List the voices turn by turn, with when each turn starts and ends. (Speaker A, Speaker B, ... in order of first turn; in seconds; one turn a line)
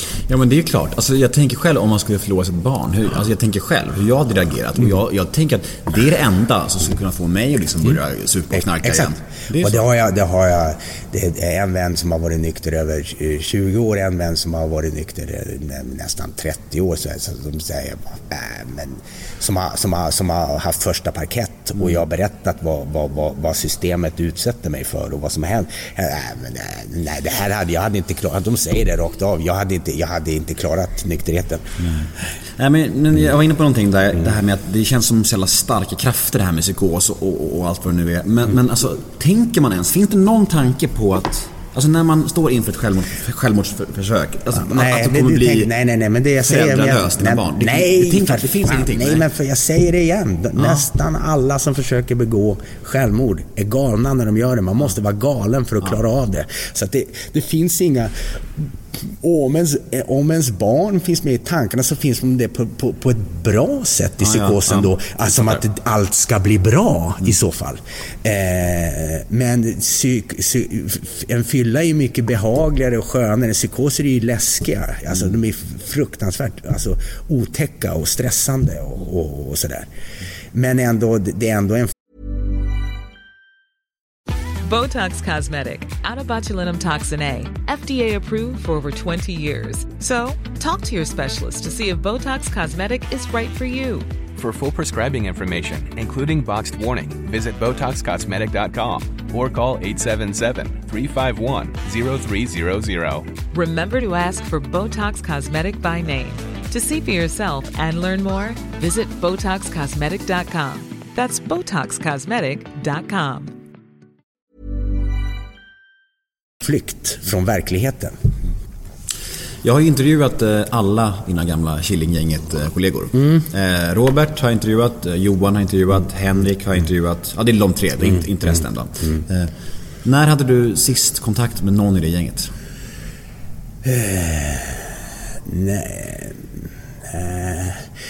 Speaker A: 0.3-9.8
Speaker B: 8.5-31.7
Speaker A: 31.8-45.7
Speaker B: 44.5-79.9
Speaker A: 46.4-49.2
Speaker A: 50.6-50.9
Speaker A: 64.2-65.6
Speaker B: 80.5-81.9
Speaker C: 84.6-94.1
Speaker D: 94.3-103.2
Speaker C: 103.5-113.5
Speaker B: 116.6-118.2
Speaker A: 119.6-129.5
Speaker A: 130.0-132.5
Speaker B: 133.8-134.9
Speaker B: 135.4-136.4
Speaker B: 137.1-137.8